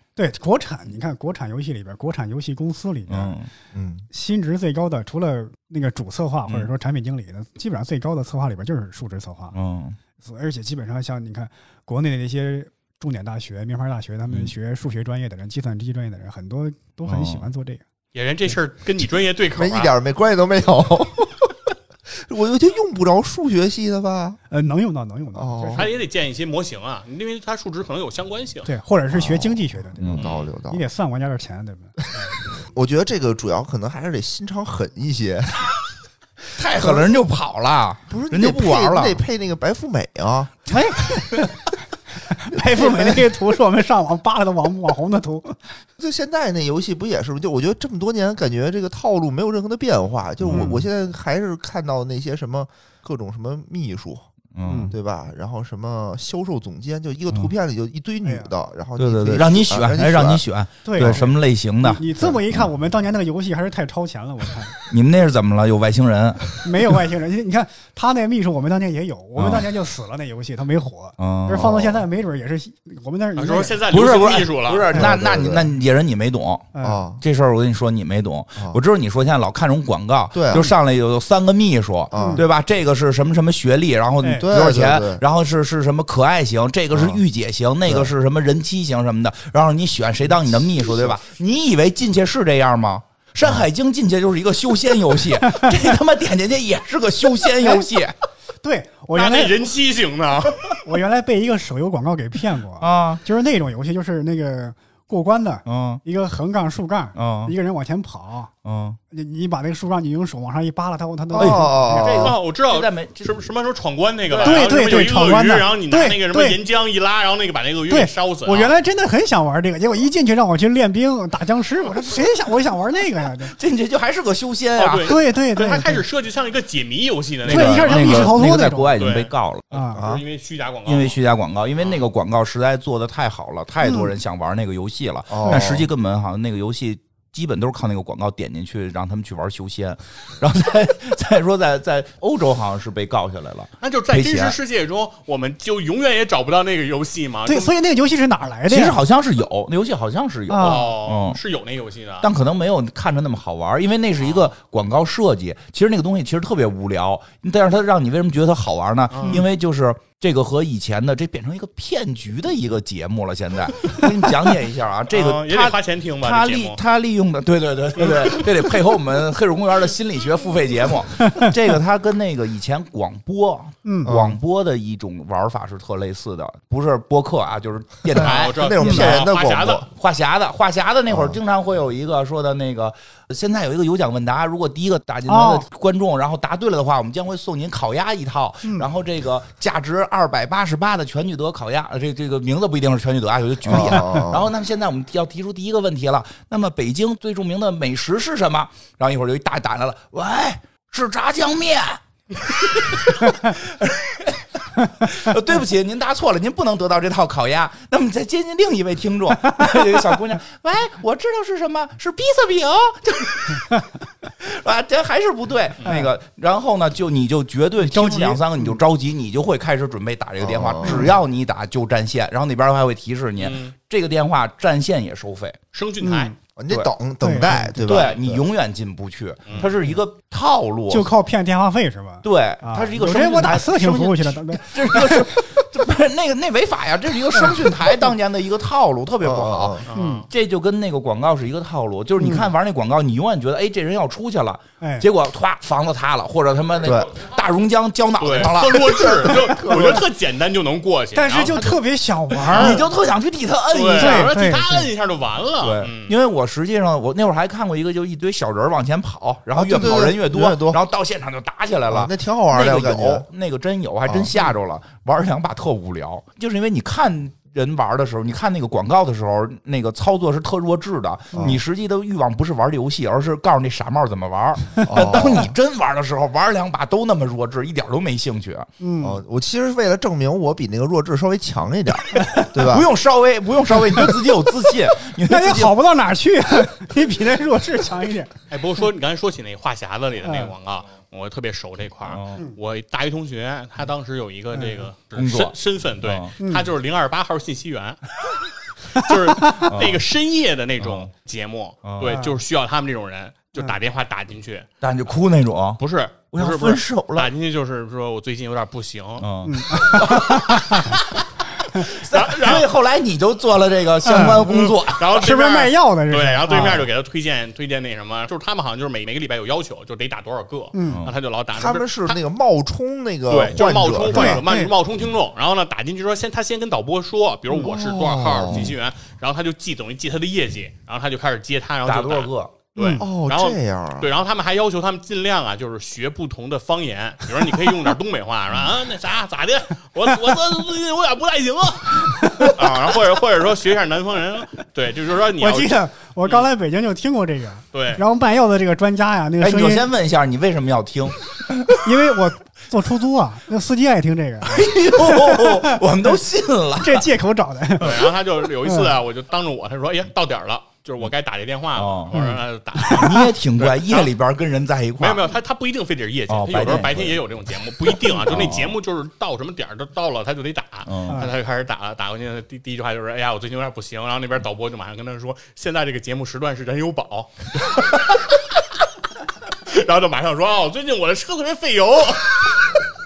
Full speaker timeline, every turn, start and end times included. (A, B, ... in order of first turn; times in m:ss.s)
0:00.2-0:03.4 A
0:03.1-0:03.5 B
0:03.7-0:04.0 C
0:04.1-0:09.6 A
0:09.5-0:10.0 B
0:10.2-0:17.8 A
0:17.1-0:17.5 B
0:18.1-0:19.9 D
0:19.6-0:24.4 C
0:24.5-0:25.9 A
0:25.3-0:25.9 C
0:25.7-0:28.7 D
0:28.6-0:32.3 A
0:29.1-0:30.8 C
0:30.0-0:30.3 B
0:30.2-0:30.5 D
0:32.5-0:35.7 C
0:36.5-0:39.2 B
0:36.7-0:37.1 C
0:38.1-0:41.1 C
0:40.7-0:41.5 A
0:42.2-0:45.8 A
0:42.5-0:43.3 C
0:46.0-0:54.2 C
0:50.4-0:50.8 B
0:50.5-0:50.8 A
0:54.5-0:54.9 B
0:54.6-0:54.9 A
0:54.9-1:00.4 C
0:58.2-0:58.5 A
0:59.0-1:02.6 B
1:00.8-1:04.8 A
1:01.0-1:01.3 C
1:04.9-1:06.9 B
1:06.6-1:13.8 A
1:09.4-1:09.7 B
1:11.2-1:11.9 B
1:11.6-1:12.0 C
1:13.4-1:14.9 D
1:13.9-1:38.1 B
1:14.9-1:15.7 C
1:16.7-1:17.0 A
1:16.8-1:17.2 C
1:18.6-1:18.8 C
1:20.3-1:20.7 C
1:22.1-1:22.5 C
1:22.1-1:22.4 A
1:24.2-1:24.5 A
1:24.4-1:25.2 C
1:26.9-1:27.2 C
1:27.8-1:28.1 C
1:30.8-1:31.1 C
1:37.6-1:37.9 A
1:38.6-1:39.7 A
1:39.1-1:40.7 D
1:40.8-1:48.5 A
1:42.8-1:43.2 B
1:45.6-1:46.0 B
1:47.1-1:47.5 B
1:48.6-1:49.0 B
1:49.1-1:52.2 A
1:51.3-1:52.4 C
1:51.4-1:53.3 B
1:52.2-1:58.7 D
1:54.4-1:56.6 A
1:57.9-2:03.5 A
2:03.5-2:05.2 B
2:04.7-2:08.4 D
2:05.0-2:06.0 A
2:07.4-2:09.6 B
2:07.5-2:09.0 A
2:09.0-2:11.2 D
2:09.7-2:10.0 A
2:10.0-2:10.2 C
2:10.8-2:24.6 B
2:11.8-2:12.1 D
2:13.8-2:14.1 A
2:15.3-2:15.9 C
2:23.8-2:27.7 D
2:27.4-2:29.0 A
2:28.7-2:31.4 B
2:30.5-2:30.9 A
2:30.6-2:32.3 D
2:32.2-3:33.8 B
2:34.2-2:34.5 D
2:39.1-2:39.5 D
2:45.1-2:46.8 D
2:48.0-2:48.4 D
2:53.8-2:54.1 A
2:54.0-2:54.4 C
2:58.1-2:59.8 D
2:58.2-2:59.8 C
2:58.8-2:59.1 A
3:01.1-3:01.4 C
3:05.3-3:05.6 A
3:13.6-3:14.5 C
3:13.7-3:14.0 A
3:29.4-3:30.1 A
3:34.4-3:45.6 B
3:35.8-3:36.1 A
3:37.8-3:38.8 A
3:40.4-3:41.2 C
3:40.8-3:41.1 A
3:43.4-3:43.7 D
3:45.7-3:46.3 D
3:46.0-3:46.3 A
3:46.6-3:48.4 C
3:47.2-3:47.9 A
3:47.8-3:51.1 B
3:47.9-3:48.2 D
3:49.4-3:49.8 D
3:50.9-3:55.7 A
3:52.2-4:09.3 B
3:57.3-3:57.8 A
3:59.2-3:59.8 C
3:59.8-4:00.3 D
3:59.9-4:00.3 A
4:02.2-4:02.5 A
4:04.8-4:05.1 A
4:06.8-4:07.1 C
4:08.2-4:11.8 D
4:08.9-4:10.0 C
4:11.1-4:12.8 A
4:12.3-4:12.9 D
4:12.5-4:14.3 B
4:13.7-4:16.2 D
4:14.0-4:14.9 A
4:15.6-4:38.7 B
4:19.5-4:20.8 C
4:21.9-4:23.3 C
4:24.0-4:24.3 C
4:31.3-4:31.6 C
4:34.8-4:35.5 C
4:38.8-4:39.2 A
4:39.0-4:42.9 C
4:42.1-4:42.5 A
4:42.5-4:45.8 B
4:43.7-4:44.4 A
4:44.9-4:48.3 A
4:48.5-4:58.1 D
4:50.2-4:50.5 A
4:52.0-4:52.4 B
4:54.5-4:54.9 A
4:55.1-4:56.3 B
4:56.4-4:56.7 A
4:58.9-5:04.7 D
4:59.0-4:59.7 A
4:59.7-5:00.0 B
5:00.8-5:01.1 B
5:01.8-5:02.2 B
5:02.0-5:02.4 A
5:04.8-5:07.3 B
5:05.8-5:09.3 D
5:09.2-5:15.2 B
5:09.4-5:10.9 A
5:12.0-5:12.7 D
5:14.0-5:16.9 A
5:14.1-5:22.2 D
5:16.5-5:16.8 B
5:20.7-5:21.0 A
5:20.9-5:21.1 B
5:21.5-5:24.4 C
5:23.3-5:46.4 D
5:24.1-5:24.7 A
5:27.6-5:28.8 C
5:28.5-5:28.7 B
5:31.8-5:32.5 B
5:32.8-5:33.1 A
5:33.0-5:34.1 C
5:42.1-5:42.6 A
5:45.4-5:49.9 A
5:47.7-5:48.0 D
5:49.4-5:51.8 B
5:51.8-5:56.2 A
5:54.4-5:57.1 B
5:56.8-5:58.0 A
5:57.8-6:04.1 D
5:58.6-5:59.0 A
6:01.7-6:02.2 B
6:02.1-6:03.2 A
6:02.9-6:05.3 B
6:05.0-6:18.5 D
6:06.3-6:07.2 B
6:07.8-6:08.8 B
6:10.8-6:11.3 B
6:11.1-6:11.3 A
6:19.5-6:22.7 D